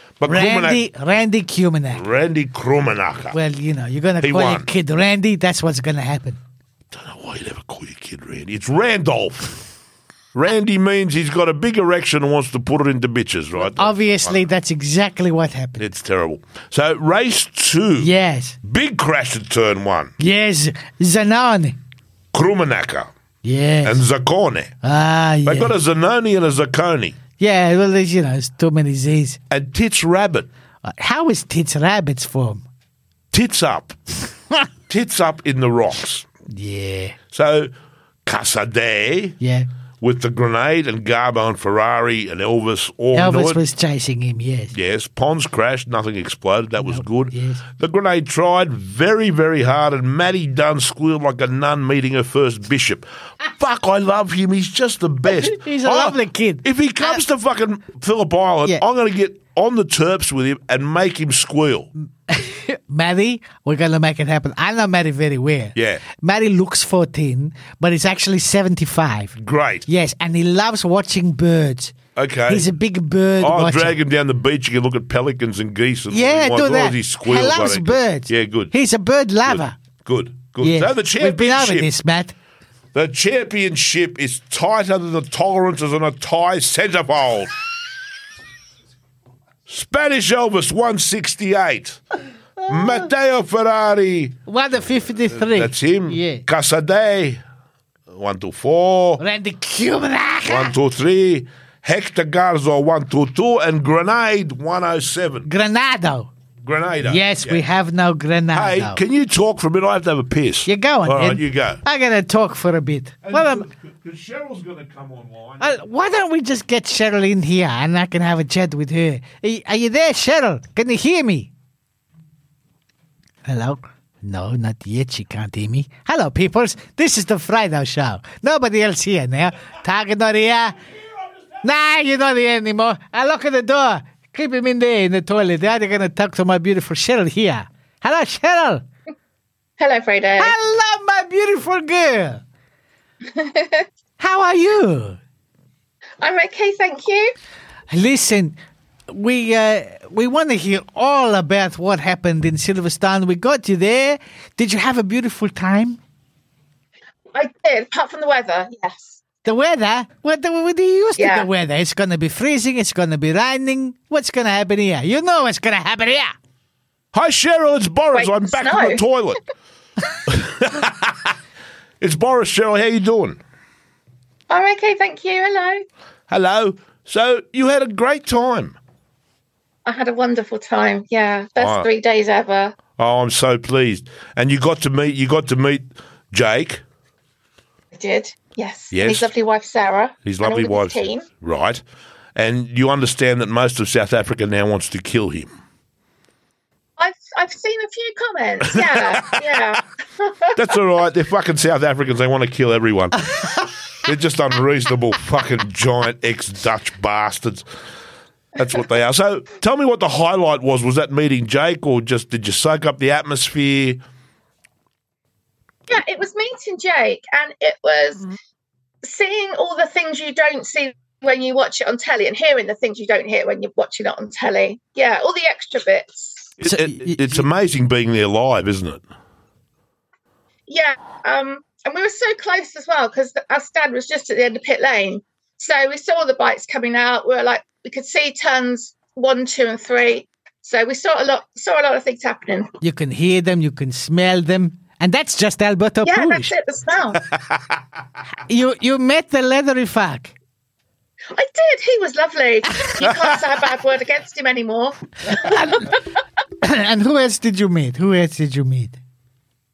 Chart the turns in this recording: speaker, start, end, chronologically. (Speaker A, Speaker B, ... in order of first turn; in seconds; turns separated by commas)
Speaker A: 0.2-0.8, Speaker B: 0.2-2.0, Speaker A: 1.9-3.4, Speaker B: 3.3-6.4, Speaker A: 4.2-4.7, Speaker A: 6.9-9.6, Speaker A: 10.3-14.4, Speaker B: 13.6-15.8, Speaker A: 15.8-18.1, Speaker B: 18.0-18.6, Speaker A: 18.6-20.1, Speaker B: 20.2-21.8, Speaker A: 22.3-23.1, Speaker B: 23.4-24.0, Speaker A: 23.8-24.7, Speaker B: 24.8-25.7, Speaker A: 25.4-27.2, Speaker B: 27.4-29.4, Speaker A: 29.5-30.5, Speaker B: 30.8-32.6, Speaker A: 33.3-34.0, Speaker A: 34.9-36.2, Speaker B: 36.5-37.1, Speaker A: 37.3-37.7, Speaker A: 38.2-39.4, Speaker B: 39.4-39.7, Speaker A: 40.0-43.6, Speaker B: 43.1-44.7, Speaker A: 44.7-61.9, Speaker B: 46.8-47.6, Speaker B: 55.2-57.2, Speaker B: 62.3-69.3, Speaker A: 65.7-66.0, Speaker A: 69.3-69.9, Speaker B: 69.9-74.0, Speaker A: 72.1-72.7, Speaker A: 73.4-78.7, Speaker B: 76.1-79.8, Speaker A: 79.5-81.9, Speaker B: 80.6-82.3, Speaker A: 82.9-87.5, Speaker A: 89.7-92.0, Speaker B: 92.6-93.1, Speaker A: 92.7-94.4, Speaker B: 94.5-96.4, Speaker A: 95.3-97.4, Speaker A: 98.1-99.2, Speaker B: 99.2-100.8, Speaker A: 100.5-105.5, Speaker B: 105.4-106.3, Speaker A: 106.6-107.6, Speaker B: 107.0-109.0, Speaker A: 108.5-111.8, Speaker B: 110.7-113.7, Speaker A: 113.2-115.7, Speaker B: 115.6-121.5, Speaker B: 123.4-130.8, Speaker B: 131.6-138.8, Speaker C: 139.8-140.5, Speaker B: 140.4-142.4, Speaker C: 143.3-143.8, Speaker B: 144.2-145.2, Speaker C: 146.2-147.3, Speaker B: 147.9-148.6, Speaker B: 149.1-156.0, Speaker C: 157.3-159.2, Speaker B: 159.4-166.3, Speaker C: 161.2-161.5, Speaker A: 167.1-169.4, Speaker C: 168.1-169.0, Speaker A: 170.2-171.3, Speaker A: 172.0-173.4, Speaker C: 174.5-175.8, Speaker A: 176.3-178.8, Speaker C: 179.8-182.8, Speaker A: 181.6-181.9, Speaker A: 183.0-186.8, Speaker C: 187.9-191.2, Speaker A: 188.9-189.3, Speaker A: 190.2-191.8, Speaker A: 192.3-195.5, Speaker C: 197.0-200.5, Speaker A: 198.7-199.3, Speaker A: 200.5-203.5, Speaker B: 203.3-203.6, Speaker A: 204.0-207.7, Speaker A: 208.6-214.0, Speaker C: 215.9-218.3, Speaker C: 219.0-226.5, Speaker A: 226.6-229.0, Speaker B: 226.6-227.5, Speaker C: 230.7-242.7, Speaker B: 242.8-246.5, Speaker C: 246.0-247.3, Speaker B: 248.5-250.3, Speaker C: 251.3-256.0, Speaker B: 255.3-255.9, Speaker B: 256.6-259.0